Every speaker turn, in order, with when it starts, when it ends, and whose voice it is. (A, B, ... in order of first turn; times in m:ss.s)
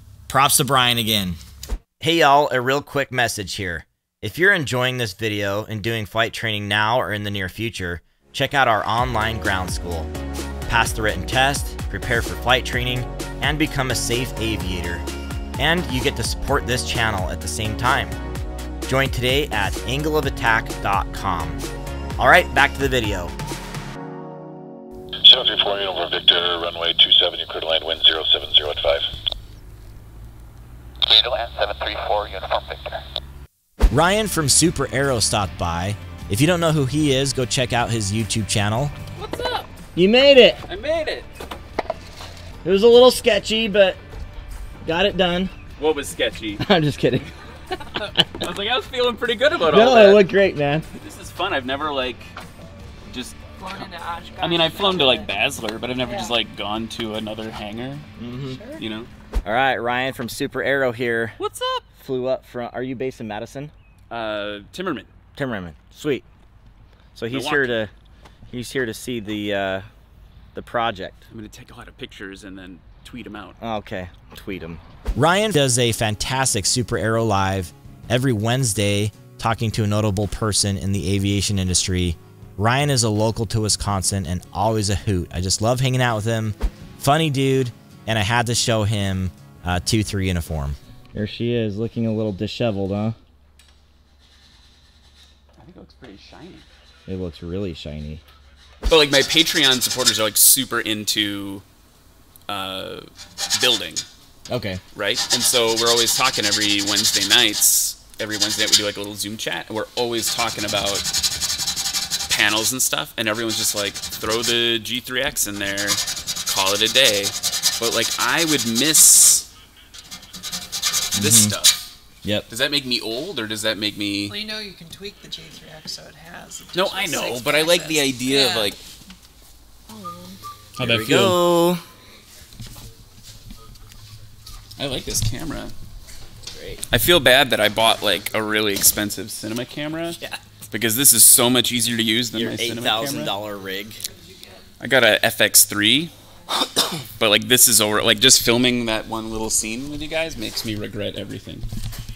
0:00.3-0:01.4 A
0:02.0-0:10.1 A
0:10.7-0:15.0 A
0:15.6-0:18.2 A
0:18.8-0:21.6 A
0:22.2-0:23.3 A
0:25.2-0:29.1 B
0:31.0-0:33.0 C
0:33.9-0:38.9 A
0:39.2-0:39.7 D
0:39.9-0:40.6 A
0:40.6-0:41.3 D
0:42.6-0:44.0 A
0:44.8-0:45.5 A
0:45.8-0:46.6 D
0:46.6-0:47.3 A
0:48.3-0:50.2 D
0:49.7-0:50.8 A
0:50.9-0:52.3 D
0:53.1-0:53.4 D
0:53.6-0:55.3 E
0:54.4-0:58.1 D
0:56.0-0:56.3 E
0:58.2-0:58.6 A
0:58.6-0:59.1 D
0:59.4-1:01.4 A
1:01.4-1:01.8 D
1:01.9-1:03.7 A
1:04.1-1:05.1 D
1:05.4-1:06.2 A
1:07.2-1:07.9 A
1:07.3-1:07.7 D
1:08.5-1:09.8 A
1:10.5-1:11.3 A
1:11.3-1:13.6 D
1:13.6-1:33.2 A
1:35.6-1:36.7 D
1:37.1-1:38.2 A
1:38.9-1:41.6 D
1:42.5-1:44.0 D
1:44.5-1:44.8 A
1:44.9-1:51.1 D
1:52.3-1:59.5 D
2:01.1-2:01.5 A
2:01.1-2:01.8 D
2:02.5-2:04.4 D
2:04.3-2:08.8 E
2:06.7-2:08.8 D
2:09.9-2:10.4 E
2:10.8-2:11.4 D
2:10.8-2:11.8 A
2:14.8-2:15.7 D
2:16.8-2:20.2 D
2:20.7-2:23.3 D
2:22.3-2:24.0 A
2:24.8-2:26.1 D
2:27.2-2:31.7 D